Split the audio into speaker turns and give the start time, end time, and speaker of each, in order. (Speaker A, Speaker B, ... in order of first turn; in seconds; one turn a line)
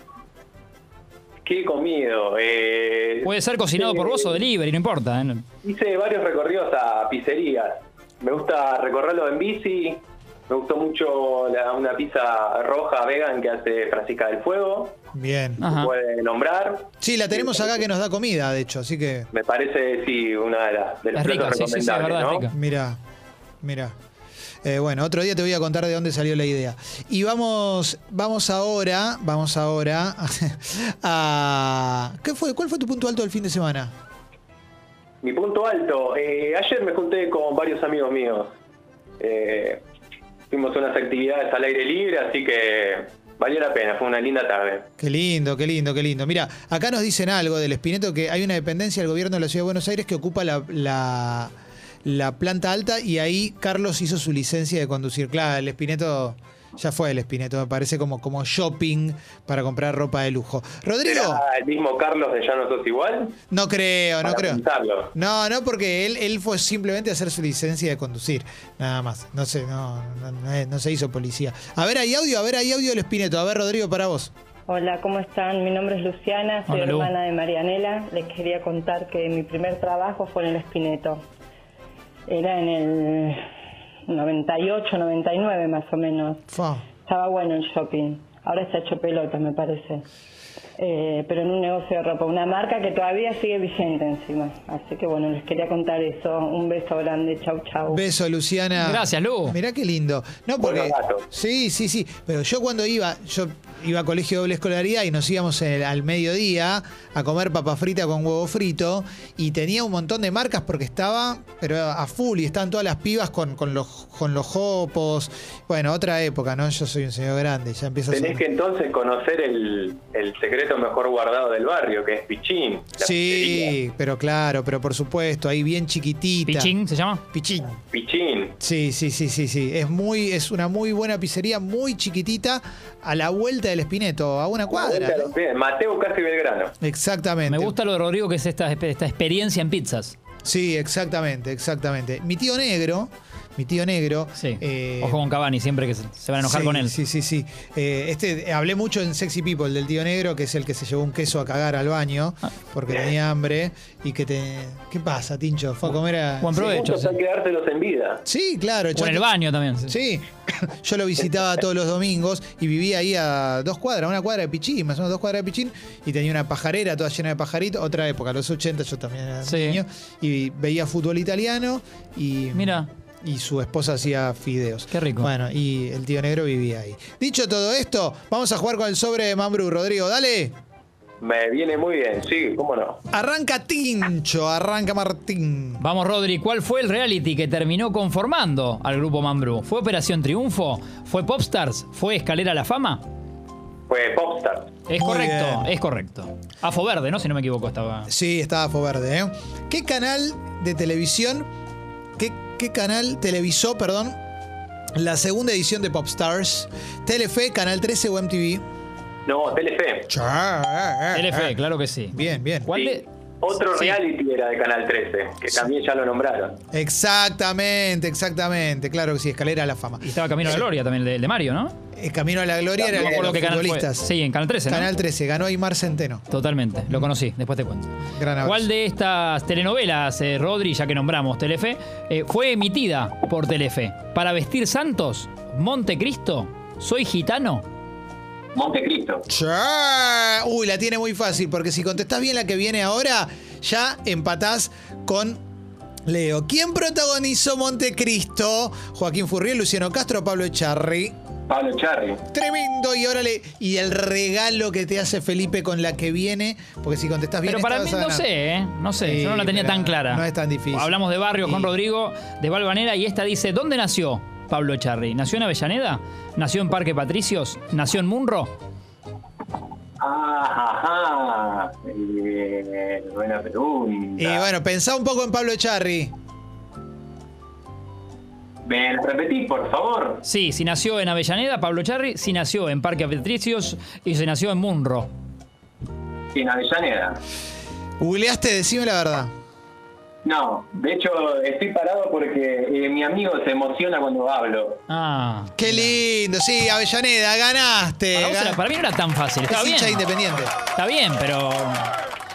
Speaker A: 1.4-4.4
Speaker B: 3.2-5.5
Speaker A: 5.6-15.0
Speaker C: 15.1-15.6
Speaker A: 15.6-17.8
Speaker C: 17.0-19.3
Speaker A: 19.3-22.5
Speaker B: 21.1-22.5
Speaker C: 22.5-23.0
Speaker C: 23.6-23.9
Speaker C: 24.6-33.9
Speaker A: 35.2-38.5
Speaker A: 39.2-39.8
Speaker A: 40.5-44.9
Speaker C: 45.0-51.5
Speaker C: 52.0-61.4
Speaker A: 61.0-63.4
Speaker C: 63.5-64.6
Speaker A: 64.2-65.1
Speaker C: 65.2-74.3
Speaker D: 74.7-81.2
Speaker B: 76.7-77.1
Speaker D: 82.3-83.4
Speaker D: 84.1-86.5
Speaker C: 86.5-86.8
Speaker D: 87.1-90.1
Speaker D: 90.8-98.0
Speaker C: 97.9-118.4
Speaker B: 98.8-99.6
Speaker A: 100.6-101.2
Speaker A: 118.1-123.7
Speaker C: 123.0-126.7
Speaker B: 126.5-127.2
Speaker C: 127.3-127.8
Speaker A: 127.9-128.6
Speaker C: 128.6-135.3
Speaker A: 134.7-136.7
Speaker C: 136.8-137.8
Speaker B: 137.5-140.2
Speaker C: 140.4-145.2
Speaker B: 144.4-147.0
Speaker C: 146.4-156.6
Speaker B: 156.4-157.2
Speaker A: 156.5-158.2
Speaker C: 158.3-159.3
Speaker B: 158.9-159.9
Speaker C: 159.9-180.6
Speaker B: 169.4-169.8
Speaker B: 172.5-172.9
Speaker B: 174.9-175.3
Speaker A: 181.2-183.0
Speaker C: 183.1-185.8
Speaker B: 185.8-193.0
Speaker A: 193.9-194.7
Speaker B: 194.9-198.1
Speaker C: 195.0-195.7
Speaker C: 198.1-201.5
Speaker C: 202.2-204.2
Speaker C: 204.9-208.6
Speaker A: 209.3-210.1
Speaker C: 210.1-211.6
Speaker B: 211.1-212.1
Speaker C: 212.1-212.7
Speaker B: 212.7-213.1
Speaker A: 212.7-216.6
Speaker B: 213.7-214.0
Speaker C: 216.7-220.7
Speaker B: 220.0-221.8
Speaker C: 221.9-224.1
Speaker A: 222.8-223.3
Speaker B: 223.0-224.9
Speaker C: 224.7-226.2
Speaker B: 226.3-237.7
Speaker C: 228.1-228.7
Speaker A: 238.5-239.2
Speaker C: 239.3-245.4
Speaker C: 246.1-251.2
Speaker A: 251.5-252.2
Speaker C: 252.3-258.3
Speaker B: 257.4-268.6
Speaker C: 259.0-261.7
Speaker A: 270.0-274.5
Speaker C: 274.2-276.1
Speaker A: 278.6-280.2
Speaker B: 280.2-285.1
Speaker A: 286.3-287.2
Speaker C: 288.0-289.3
Speaker A: 290.2-294.8
Speaker B: 294.9-296.0
Speaker C: 295.6-298.6
Speaker B: 298.1-300.0
Speaker C: 299.5-300.5
Speaker B: 300.7-301.9